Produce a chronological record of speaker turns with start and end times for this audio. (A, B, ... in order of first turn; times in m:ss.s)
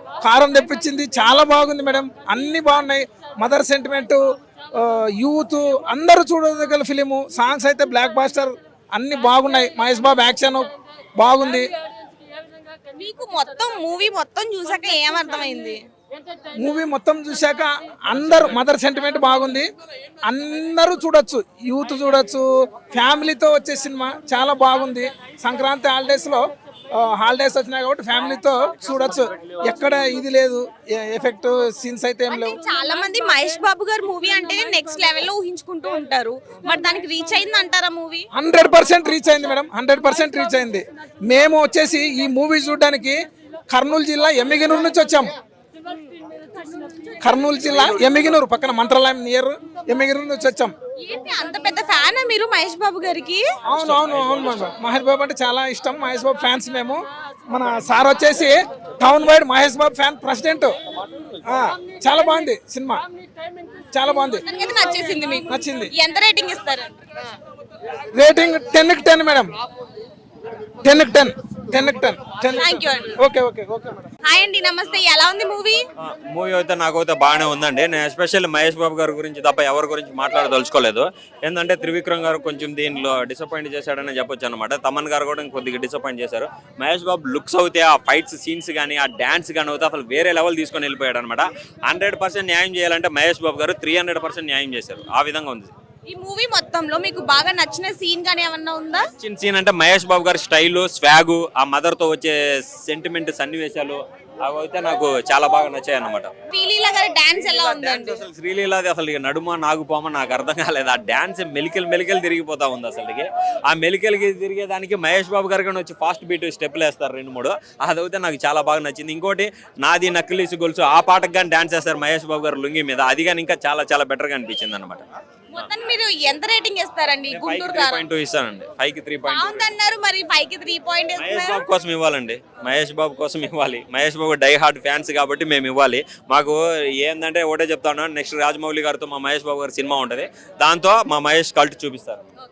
0:00.2-0:04.2 A
0:04.7-0:11.7 A
0:13.0-0:15.8 B
0:16.6-0:19.7 A
0:20.2-0:26.4 A
0:27.0-0:32.6 A
0:32.3-0:38.2 B
0:38.3-0:43.2 A
0:43.7-0:45.3 A
0:47.2-0:50.7 A
0:51.0-0:53.4 B
0:53.7-1:00.7 A
1:01.4-1:03.0 A
1:03.9-1:04.4 A
1:04.4-1:06.9 B
1:05.5-1:05.9 A
1:08.1-1:09.5 A
1:10.8-1:14.0 A
1:12.5-1:13.1 B
1:14.2-1:15.8 B
1:16.0-1:35.7 C
1:36.1-1:39.0 B
1:39.2-1:46.3 C
1:46.5-1:48.2 B
1:47.4-2:05.0 C
2:05.5-2:08.0 B
2:07.3-2:09.7 C
2:09.3-2:11.7 B
2:11.2-2:22.2 C